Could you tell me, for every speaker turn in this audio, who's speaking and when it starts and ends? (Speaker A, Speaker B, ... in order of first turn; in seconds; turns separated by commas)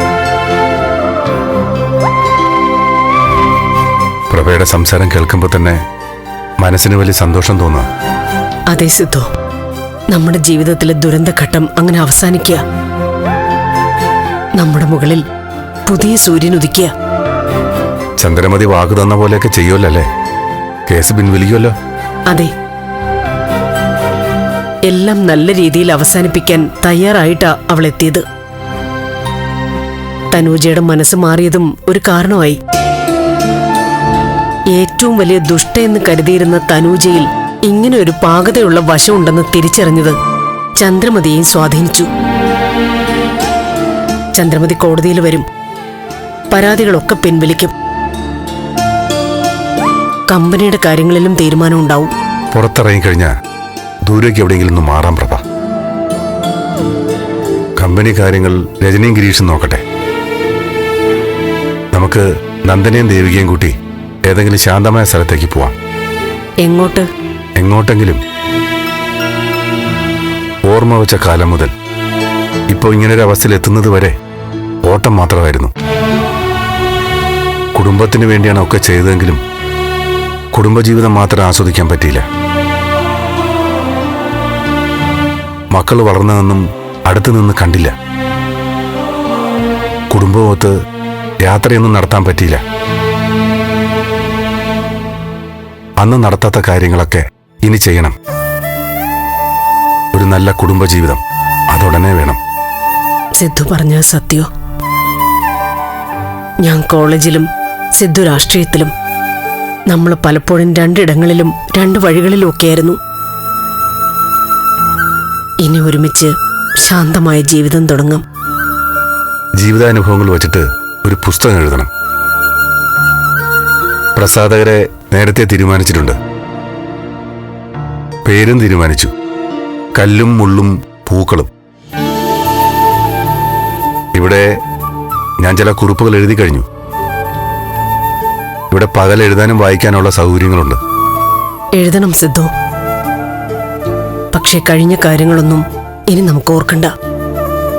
Speaker A: 4.3-5.8, Speaker A: 6.6-7.9, Speaker B: 8.7-9.3, Speaker B: 10.1-12.6, Speaker B: 14.6-15.2, Speaker B: 15.9-16.9, Speaker A: 18.2-20.1, Speaker A: 20.9-21.7, Speaker B: 24.9-28.2, Speaker B: 30.3-32.6, Speaker B: 34.7-40.2, Speaker B: 40.8-42.1, Speaker B: 44.4-45.5, Speaker B: 46.5-47.7, Speaker B: 50.3-52.1, Speaker A: 52.5-53.3, Speaker A: 54.1-55.4, Speaker A: 57.8-59.8, Speaker A: 61.9-63.7, Speaker A: 64.3-65.7, Speaker B: 66.6-67.1, Speaker A: 67.6-68.2, Speaker A: 70.7-71.7, Speaker A: 72.7-74.1, Speaker A: 74.8-75.7, Speaker A: 77.8-79.4, Speaker A: 80.5-82.2, Speaker A: 85.7-87.9, Speaker A: 90.1-90.7, Speaker A: 91.4-92.6, Speaker A: 96.0-98.1, Speaker A: 100.1-102.4, Speaker B: 103.4-104.5, Speaker B: 106.6-108.9, Speaker B: 109.9-113.0, Speaker B: 115.6-118.2, Speaker A: 119.6-121.9, Speaker A: 124.2-126.2, Speaker A: 128.2-129.1, Speaker A: 129.9-131.5, Speaker A: 134.2-134.5, Speaker A: 135.4-136.7, Speaker A: 138.7-140.8, Speaker B: 141.8-142.5, Speaker B: 144.3-146.9